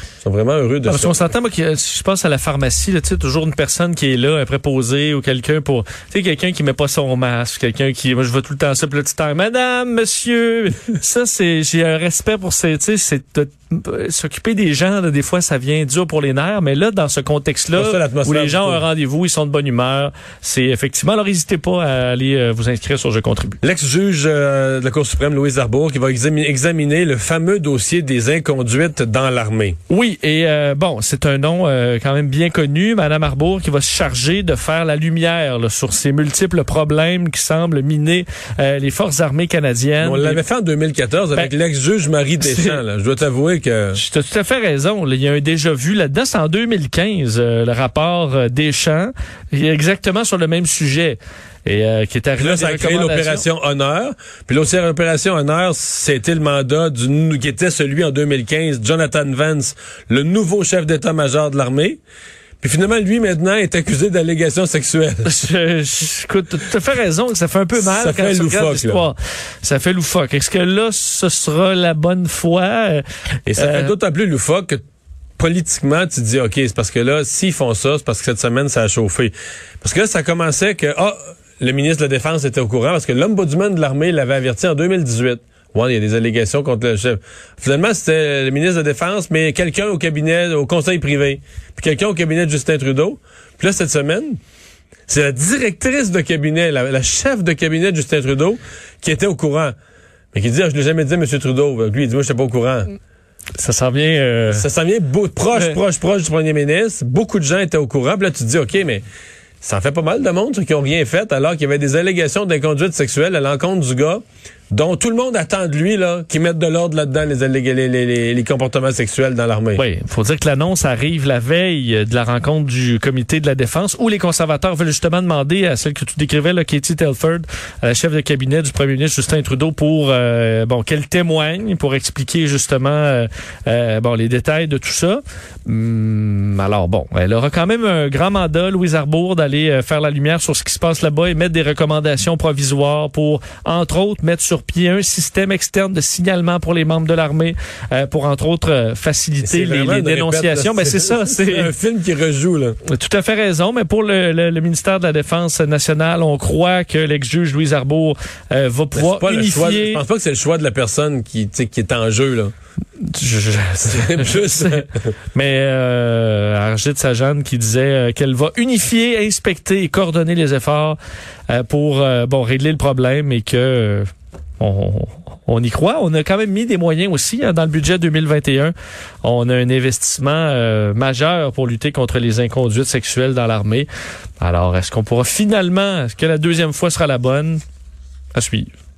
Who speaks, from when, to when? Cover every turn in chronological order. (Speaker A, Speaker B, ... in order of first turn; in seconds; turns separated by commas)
Speaker A: 0.2-1.1, Speaker B: 0.8-23.6, Speaker A: 17.8-18.8, Speaker A: 23.6-29.8, Speaker B: 29.9-40.4, Speaker A: 40.0-44.0, Speaker B: 42.4-42.8, Speaker B: 43.9-53.5, Speaker A: 52.4-62.0, Speaker A: 62.6-65.3, Speaker B: 65.2-73.9, Speaker A: 67.8-69.0, Speaker A: 73.5-74.8, Speaker A: 75.4-94.4, Speaker A: 95.1-99.7, Speaker A: 100.3-102.9, Speaker B: 103.5-104.7, Speaker A: 104.5-109.0, Speaker A: 109.6-119.8, Speaker B: 119.8-151.7, Speaker A: 149.4-152.8, Speaker B: 152.8-160.0, Speaker A: 158.9-162.5, Speaker B: 163.0-171.0, Speaker A: 163.8-165.1, Speaker B: 171.5-174.1, Speaker B: 174.6-183.9, Speaker B: 184.4-187.6, Speaker B: 188.3-188.7